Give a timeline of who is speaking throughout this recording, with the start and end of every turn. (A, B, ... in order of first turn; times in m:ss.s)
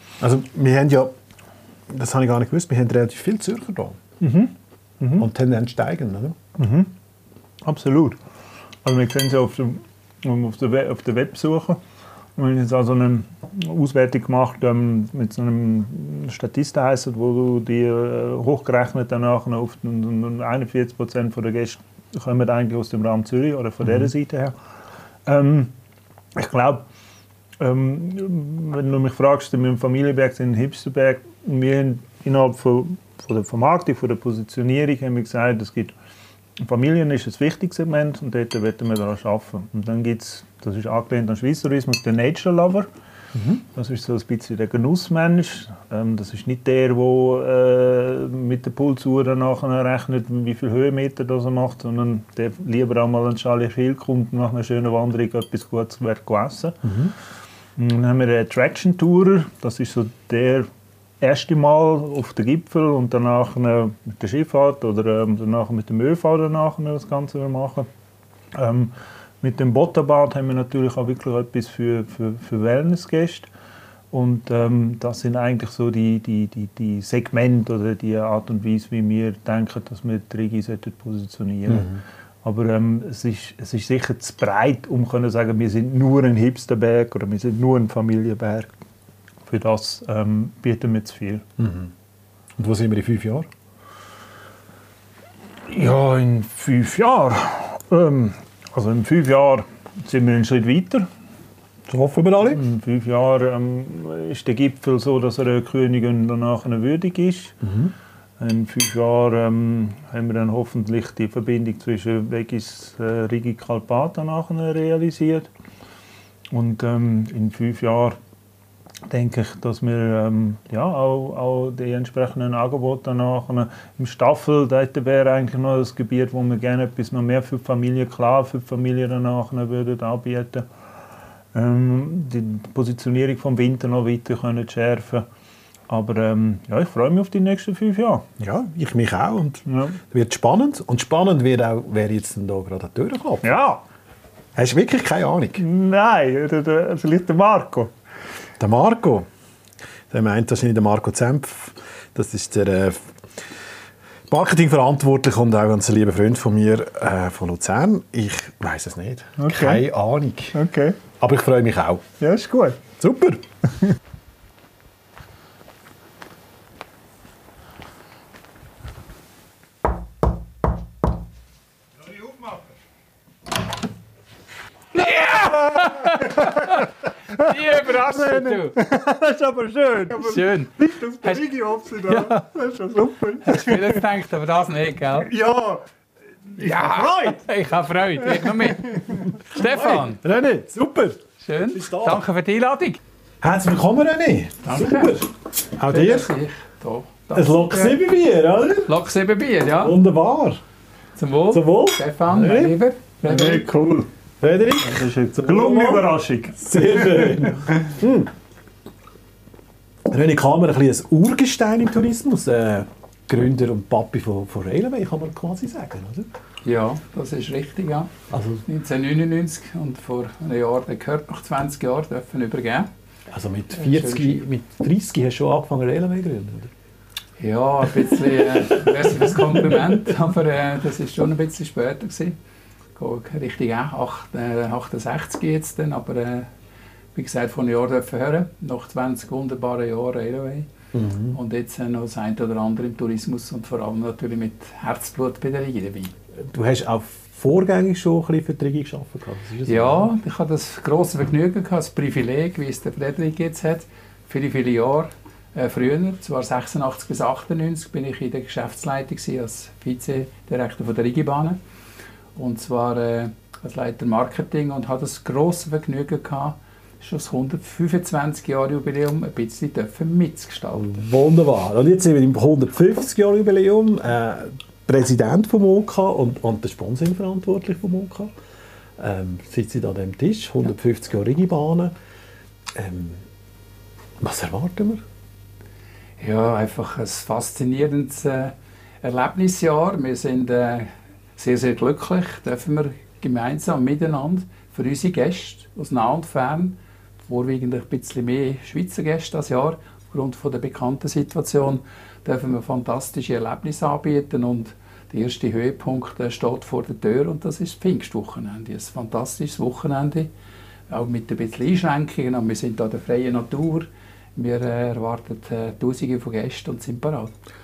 0:00.2-0:01.1 A
0:01.9-0:04.0 A
0:04.2-0:05.3 B
0:05.2-0:06.4 A
0:06.6-0:06.9 B
0:07.6-0:08.2 B
0:08.8-0:11.8 B
0:12.4-0:24.6 B
0:25.2-0:25.7 B
0:26.4-0:26.8 B
0:27.6-0:35.9 B
0:36.6-0:42.9 B
0:43.6-0:56.8 B
0:56.8-0:57.1 A
0:57.8-1:00.7 B
1:01.2-1:07.9 B
1:08.5-1:13.5 B
1:14.1-1:28.7 B
1:21.7-1:22.0 A
1:29.5-1:31.4 B
1:31.6-1:31.9 A
1:32.6-1:33.5 A
1:35.7-1:41.1 B
1:41.9-1:42.6 A
1:42.5-1:47.6 B
1:47.6-1:47.9 A
1:48.4-1:55.5 B
1:56.5-1:58.2 B
1:59.1-2:10.6 B
2:11.5-2:15.2 B
2:15.9-2:18.2 B
2:18.4-2:23.6 A
2:19.7-2:20.0 B
2:23.4-2:23.8 B
2:24.5-2:25.6 A
2:25.6-2:27.9 B
2:28.6-2:29.3 A
2:30.1-2:33.1 A
2:34.3-2:40.6 A
2:39.4-2:39.8 B
2:40.5-2:41.0 B
2:41.2-2:42.0 A
2:42.2-2:42.8 B
2:43.0-2:43.4 A
2:52.1-2:52.6 B
2:54.9-2:58.8 C
2:58.1-3:04.0 B
3:00.1-3:01.4 C
3:02.1-3:02.4 C
3:03.4-3:05.3 C
3:05.2-3:05.8 B
3:06.6-3:07.3 B
3:06.6-3:10.2 C
3:09.5-3:11.2 A
3:11.4-3:13.0 C
3:11.7-3:12.2 A
3:13.4-3:16.3 A
3:14.6-3:15.3 C
3:15.9-3:18.0 C
3:17.3-3:18.9 A
3:18.9-3:20.0 C
3:19.8-3:20.6 A
3:21.2-3:23.6 C
3:21.5-3:22.8 A
3:23.2-3:24.1 B
3:24.4-3:28.3 A
3:24.8-3:27.7 B
3:30.1-3:36.3 A
3:36.6-3:38.1 C
3:38.3-3:38.6 A
3:38.6-3:42.9 C
3:43.3-3:46.7 A
3:43.8-3:44.4 C
3:47.4-3:52.4 C
3:48.5-3:49.8 A
3:53.0-3:56.5 C
3:57.1-4:00.7 C
4:00.9-4:01.4 A
4:01.3-4:06.1 C
4:06.4-4:10.1 A
4:09.6-4:21.6 C
4:22.4-4:31.0 C
4:30.7-4:38.3 A
4:39.0-4:41.9 A
4:42.7-4:43.3 A
4:44.2-4:45.0 A
4:46.2-5:10.3 C
5:10.9-5:17.3 C